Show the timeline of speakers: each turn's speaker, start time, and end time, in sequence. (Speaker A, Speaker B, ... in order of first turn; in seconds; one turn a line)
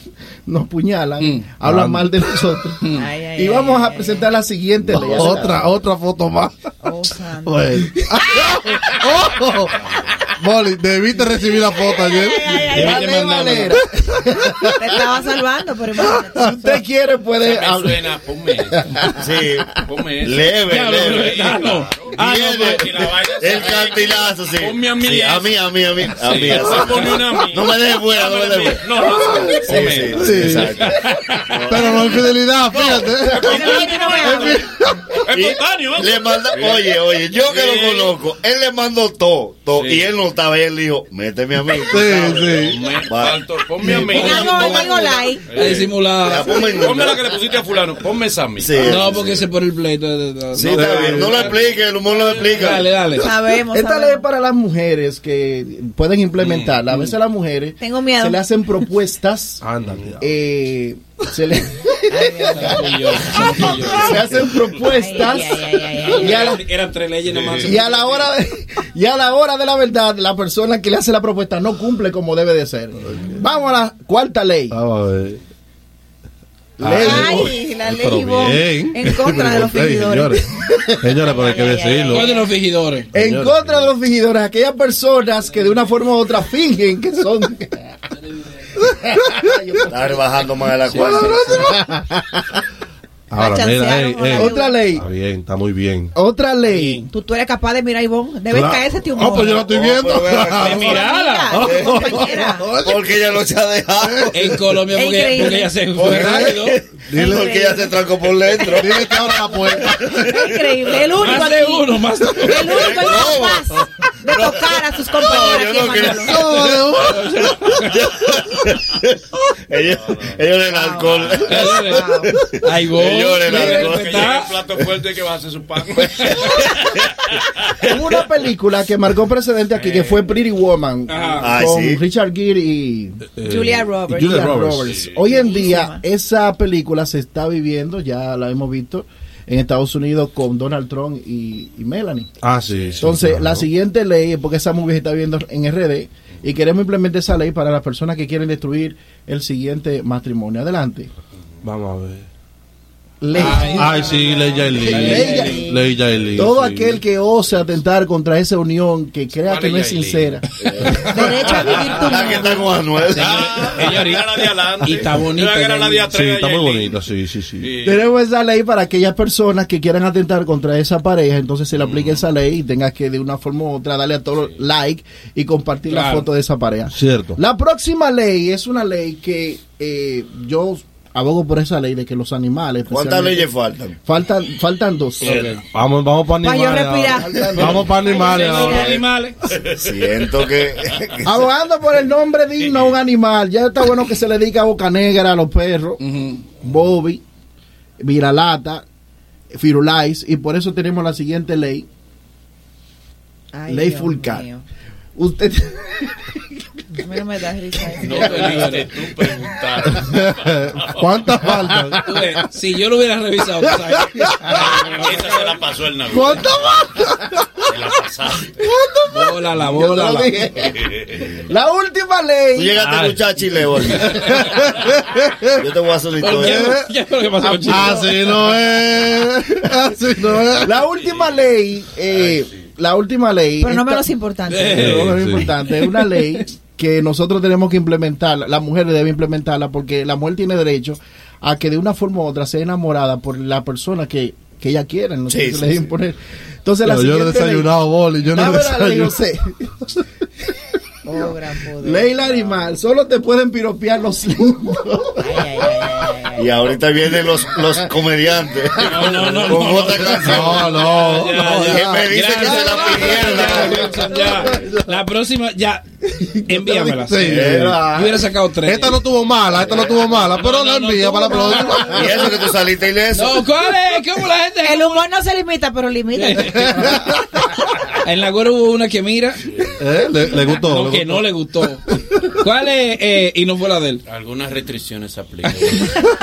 Speaker A: 0.5-5.7
Speaker B: 1.2-1.4
Speaker C: 1.6-2.1
Speaker D: 2.9-4.3
Speaker C: 4.9-6.5
Speaker D: 4.9-5.3
Speaker D: 6.8-7.8
Speaker C: 7.4-9.8
Speaker A: 7.9-9.0
Speaker E: 9.7-10.2
Speaker C: 10.4-13.0
Speaker D: 11.2-13.2
Speaker A: 12.7-15.0
Speaker B: 12.7-13.8
Speaker D: 14.8-16.8
Speaker C: 16.0-16.5
Speaker A: 16.4-18.2
Speaker E: 17.4-19.0
Speaker A: 18.8-19.3
Speaker F: 19.2-19.7
Speaker E: 19.8-30.8
Speaker F: 20.2-28.9
Speaker B: 20.7-22.9
Speaker C: 29.2-30.8
Speaker F: 29.6-32.2
Speaker B: 30.8-31.8
Speaker C: 31.7-35.1
Speaker D: 31.9-32.2
Speaker D: 33.3-34.7
Speaker E: 33.3-34.5
Speaker E: 35.2-38.2
Speaker F: 35.3-44.1
Speaker E: 39.8-40.1
Speaker C: 41.8-42.8
Speaker E: 42.1-49.3
Speaker B: 44.0-46.6
Speaker D: 44.0-45.5
Speaker F: 46.2-47.3
Speaker F: 48.6-49.4
Speaker B: 48.8-51.2
Speaker F: 50.5-52.9
Speaker C: 50.7-51.3
Speaker E: 51.1-52.9
Speaker B: 52.6-53.3
Speaker D: 53.2-54.2
Speaker A: 53.7-59.6
Speaker E: 56.4-56.8
Speaker D: 57.8-58.4
Speaker C: 59.6-60.3
Speaker A: 60.2-66.6
Speaker D: 62.1-63.5
Speaker B: 62.5-64.3
Speaker D: 64.8-66.5
Speaker B: 66.0-68.3
Speaker E: 67.3-67.8
Speaker A: 67.6-74.8
Speaker C: 74.7-75.4
Speaker A: 76.8-77.6
Speaker C: 76.8-80.5
Speaker D: 76.9-82.5
Speaker C: 81.0-82.3
Speaker B: 82.1-83.1
Speaker C: 83.1-83.9
Speaker A: 83.1-88.0
Speaker A: 88.8-90.3
Speaker F: 89.9-91.5
Speaker B: 90.9-91.6
Speaker A: 91.0-92.6
Speaker C: 93.3-96.1
Speaker D: 93.3-95.0
Speaker A: 94.3-95.0
Speaker A: 96.1-97.0
Speaker B: 96.7-97.1
Speaker D: 97.1-99.7
Speaker C: 98.5-100.9
Speaker F: 99.6-101.1
Speaker B: 100.6-101.7
Speaker D: 100.9-102.7
Speaker C: 101.5-103.0
Speaker F: 101.7-104.8
Speaker C: 104.0-104.3
Speaker B: 104.3-106.8
Speaker D: 104.8-105.8
Speaker F: 105.8-111.1
Speaker C: 106.0-107.6
Speaker D: 107.1-108.8
Speaker C: 108.7-110.3
Speaker D: 110.2-111.9
Speaker B: 111.2-113.2
Speaker D: 112.4-116.5
Speaker F: 112.6-124.9
Speaker C: 116.0-117.3
Speaker B: 117.0-118.0
Speaker E: 119.9-120.4
Speaker D: 120.7-122.4
Speaker E: 121.2-121.5
Speaker B: 121.5-124.5
Speaker E: 123.5-127.9
Speaker F: 126.2-127.0
Speaker A: 127.8-133.3
Speaker E: 129.7-130.4
Speaker B: 131.1-131.5
Speaker F: 131.4-132.0
Speaker C: 133.4-134.9
Speaker D: 133.4-134.5
Speaker A: 134.3-142.3
Speaker E: 134.8-135.5
Speaker D: 135.2-136.0
Speaker C: 142.4-143.7
Speaker E: 142.7-143.1
Speaker A: 143.0-151.1
Speaker C: 151.6-152.3
Speaker A: 153.2-154.1
Speaker D: 153.3-154.0
Speaker B: 153.3-155.6
Speaker C: 153.7-157.0
Speaker A: 154.8-155.8
Speaker D: 154.8-155.9
Speaker A: 156.3-162.4
Speaker E: 159.4-162.4
Speaker F: 160.6-161.0
Speaker D: 160.9-162.8
Speaker F: 161.9-163.7
Speaker E: 163.1-167.1
Speaker A: 163.2-163.6
Speaker B: 163.4-166.1
Speaker C: 166.1-167.7
Speaker E: 167.6-168.1
Speaker A: 167.8-185.6
Speaker E: 171.8-172.2
Speaker B: 175.9-176.3
Speaker C: 176.9-177.4
Speaker F: 182.9-184.0
Speaker E: 185.2-185.6
Speaker C: 185.6-188.9
Speaker D: 186.4-189.0
Speaker A: 187.2-188.0
Speaker B: 188.2-189.4
Speaker E: 189.5-190.3
Speaker F: 189.7-191.5
Speaker A: 191.2-196.0
Speaker E: 192.6-193.0
Speaker B: 196.0-196.4
Speaker A: 196.6-197.2
Speaker A: 198.0-198.8
Speaker A: 199.5-201.9
Speaker D: 203.5-204.7
Speaker A: 203.7-204.5
Speaker A: 205.2-206.4
Speaker D: 206.9-208.7
Speaker E: 208.0-211.1
Speaker B: 208.1-208.9
Speaker C: 209.9-212.5
Speaker B: 212.0-215.5
Speaker C: 213.7-214.8
Speaker E: 214.5-216.5
Speaker C: 216.1-217.6
Speaker A: 216.5-217.1
Speaker E: 217.7-218.7
Speaker A: 218.6-220.8
Speaker B: 219.1-220.3
Speaker E: 220.7-221.4
Speaker A: 221.4-222.8
Speaker F: 222.6-224.4
Speaker C: 222.8-223.2
Speaker C: 223.9-225.4
Speaker F: 225.6-226.7
Speaker B: 226.2-228.0
Speaker C: 226.4-226.9
Speaker A: 227.4-228.5
Speaker C: 227.7-230.8
Speaker A: 230.6-234.1
Speaker D: 233.6-235.0
Speaker B: 234.5-236.4
Speaker A: 234.7-247.7
Speaker C: 234.8-235.5
Speaker F: 245.3-245.9
Speaker C: 246.8-249.1
Speaker A: 248.3-249.9
Speaker D: 251.0-252.7
Speaker A: 251.8-255.9
Speaker D: 255.2-256.6
Speaker F: 256.4-260.8
Speaker B: 258.8-269.0
Speaker C: 260.0-262.1
Speaker F: 261.4-264.3
Speaker A: 263.0-264.5
Speaker C: 264.5-264.8
Speaker A: 266.2-266.7
Speaker C: 266.7-267.8
Speaker F: 267.2-267.8
Speaker A: 267.3-268.2
Speaker C: 268.6-272.3
Speaker B: 269.9-272.3
Speaker F: 271.9-273.5
Speaker B: 273.1-275.1
Speaker D: 274.6-277.0
Speaker B: 276.2-277.1
Speaker C: 276.6-277.4
Speaker B: 277.8-279.6
Speaker C: 279.8-281.3
Speaker B: 280.5-284.0
Speaker C: 281.9-282.2
Speaker E: 284.1-286.1